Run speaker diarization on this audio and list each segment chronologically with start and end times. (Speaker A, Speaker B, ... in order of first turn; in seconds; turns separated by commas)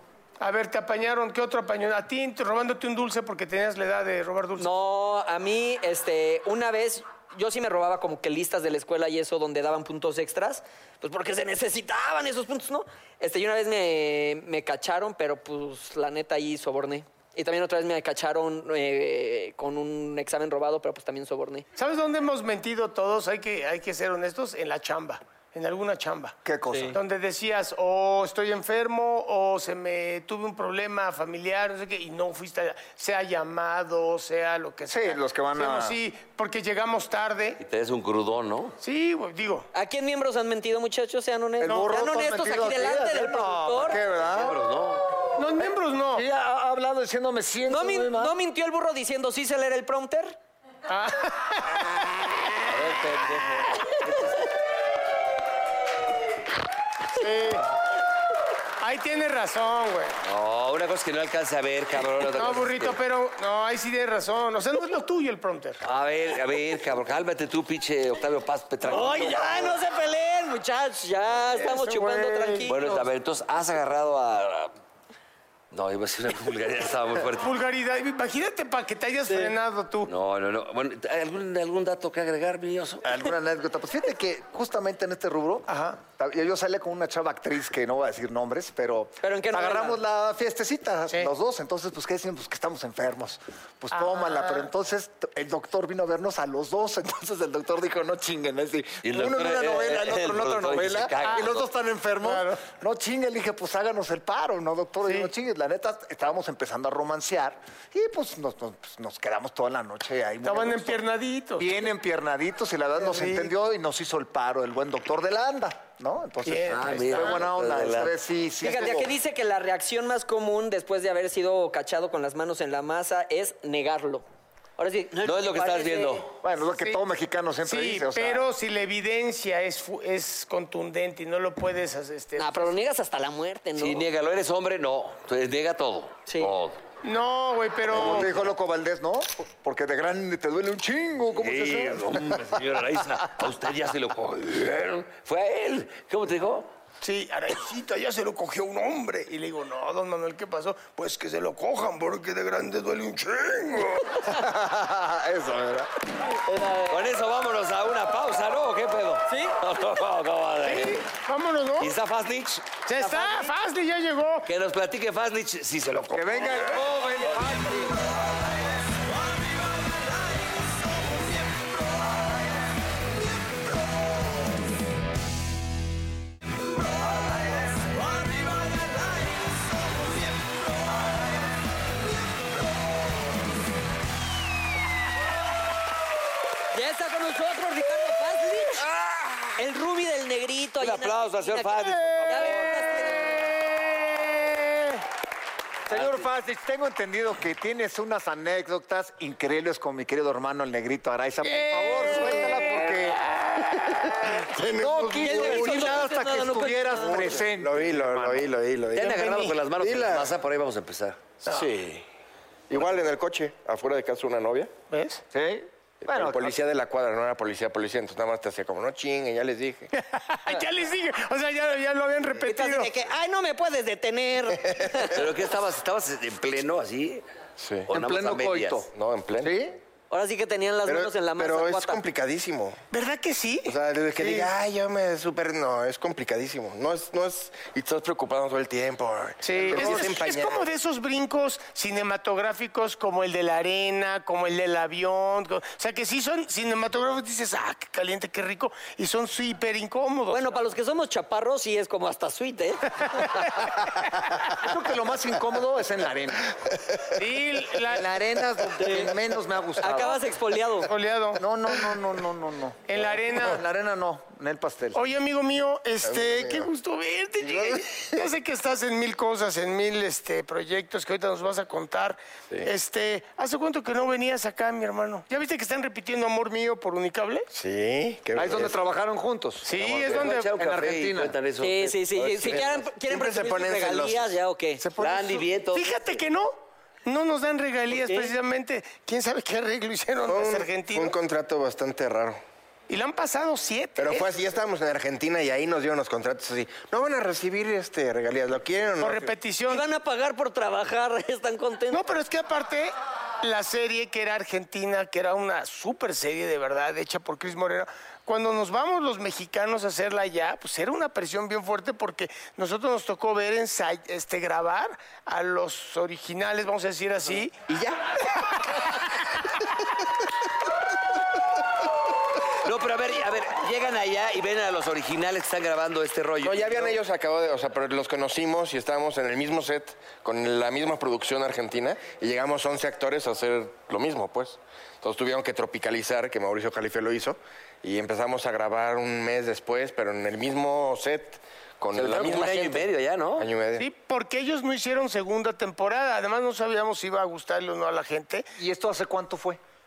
Speaker A: 0.4-4.7, Speaker B: 4.6-21.6, Speaker A: 21.8-26.4, Speaker C: 26.4-27.0, Speaker B: 26.7-26.9, Speaker A: 26.9-37.6, Speaker C: 34.9-36.0, Speaker D: 37.6-38.8, Speaker A: 38.8-39.7, Speaker B: 39.7-44.0, Speaker C: 41.6-44.6, Speaker D: 44.1-45.0, Speaker A: 45.4-46.2, Speaker C: 46.1-48.3, Speaker B: 47.7-50.4, Speaker A: 50.9-52.0, Speaker D: 52.6-54.4, Speaker A: 57.1-57.7, Speaker A: 58.8-60.1, Speaker D: 60.2-63.0, Speaker A: 62.3-65.8, Speaker D: 65.8-69.7, Speaker B: 68.8-73.0, Speaker A: 71.5-72.7, Speaker D: 72.7-74.7, Speaker D: 75.7-77.5, Speaker A: 77.4-80.1, Speaker B: 79.3-79.5, Speaker D: 80.1-83.1, Speaker C: 83.0-111.0, Speaker A: 85.7-86.0, Speaker B: 89.2-90.0, Speaker A: 93.9-94.7, Speaker D: 99.0-101.7, Speaker A: 102.2-102.6, Speaker A: 105.0-105.3, Speaker A: 110.4-111.7, Speaker C: 111.6-119.1, Speaker A: 113.0-113.5, Speaker A: 116.4-117.5, Speaker D: 116.7-118.1, Speaker B: 118.6-124.2, Speaker B: 124.8-126.2, Speaker D: 125.2-126.3, Speaker C: 126.4-128.5, Speaker A: 127.6-132.7, Speaker B: 132.4-134.0, Speaker D: 133.8-136.8, Speaker A: 137.0-138.3, Speaker C: 137.9-142.6, Speaker D: 138.0-138.4, Speaker D: 141.3-146.7, Speaker A: 147.0-154.2, Speaker C: 154.2-155.9, Speaker B: 156.4-157.0, Speaker D: 156.9-161.0, Speaker B: 159.3-159.6, Speaker A: 160.6-161.9, Speaker D: 161.8-162.7, Speaker A: 162.8-164.5, Speaker B: 163.0-163.5, Speaker D: 164.4-166.8, Speaker C: 166.1-172.1, Speaker C: 177.8-179.4, Speaker B: 186.7-188.8, Speaker B: 189.6-193.4, Speaker D: 190.8-192.8, Speaker A: 193.2-195.0, Speaker C: 195.9-203.2, Speaker A: 201.4-204.1, Speaker E: 204.3-205.9, Speaker C: 204.6-208.5, Speaker B: 205.2-207.4, Speaker E: 207.1-209.2, Speaker D: 208.9-211.2, Speaker A: 209.0-209.6, Speaker E: 209.8-210.3, Speaker E: 211.4-212.0, Speaker E: 212.7-214.7, Speaker A: 214.9-215.2, Speaker C: 215.3-216.6, Speaker E: 216.0-219.9, Speaker A: 219.9-222.9, Speaker B: 222.4-225.2, Speaker D: 225.1-227.2, Speaker E: 227.6-227.9, Speaker D: 227.9-228.9, Speaker C: 227.9-229.8, Speaker E: 228.9-229.5, Speaker B: 230.1-232.0, Speaker E: 230.8-232.8, Speaker A: 232.9-234.5, Speaker E: 233.7-240.7, Speaker A: 239.4-250.5, Speaker C: 239.7-240.0, Speaker B: 250.3-253.2, Speaker C: 254.5-256.5, Speaker A: 257.1-258.1, Speaker C: 257.8-260.2, Speaker B: 258.8-259.1, Speaker B: 259.8-260.9, Speaker A: 260.8-261.4, Speaker C: 261.3-265.0, Speaker A: 262.9-263.6, Speaker A: 264.9-277.5, Speaker E: 266.1-266.7, Speaker E: 267.5-267.8, Speaker E: 277.5-278.8, Speaker C: 278.4-281.4, Speaker A: 279.6-280.5, Speaker D: 279.8-282.0, Speaker B: 281.6-284.8, Speaker E: 282.2-284.4, Speaker C: 282.3-282.6, Speaker A: 284.9-291.1, Speaker D: 285.0-286.2, Speaker B: 287.9-288.3, Speaker E: 290.2-292.4, Speaker A: 292.9-294.3, Speaker E: 294.0-299.3, Speaker A: 299.0-299.8, Speaker B: 299.7-302.0, Speaker A: 301.9-317.6, Speaker E: 317.7-318.0, Speaker D: 322.6-326.9, Speaker E: 326.4-343.9, Speaker D: 341.9-343.5, Speaker A: 343.8-348.5, Speaker C: 348.6-349.6